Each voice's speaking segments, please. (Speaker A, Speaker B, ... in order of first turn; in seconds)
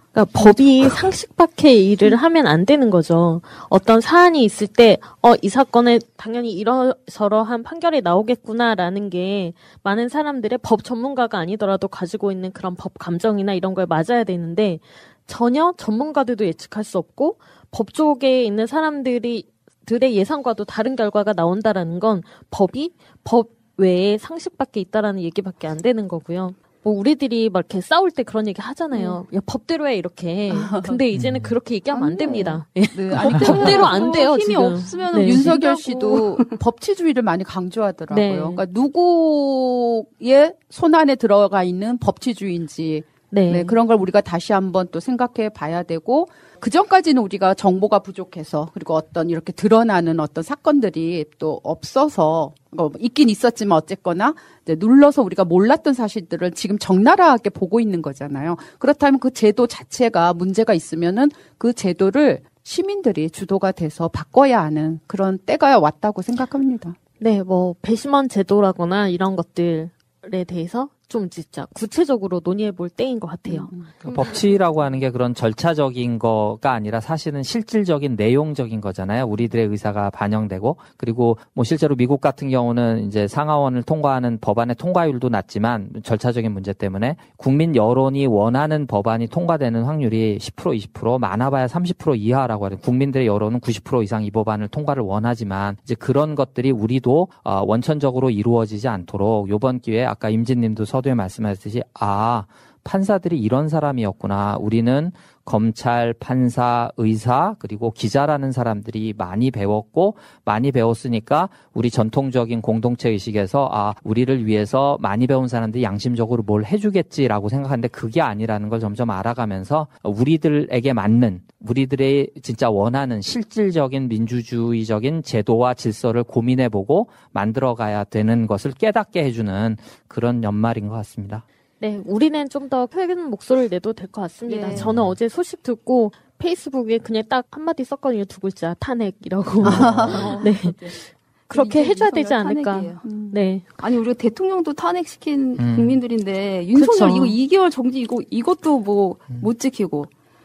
Speaker A: 0.1-35.5, 38.1-38.6, 43.3-43.8, 67.2-73.7, 131.8-143.7, 146.7-147.4
Speaker B: 0.4-0.7, 31.9-36.6, 134.5-134.9, 139.6-141.0, 141.5-143.3, 143.8-150.1
Speaker C: 30.5-31.0, 32.9-34.2, 35.2-67.0, 73.5-73.9, 139.7-140.3, 143.0-143.4
Speaker D: 31.1-31.6, 74.0-131.4, 145.6-146.0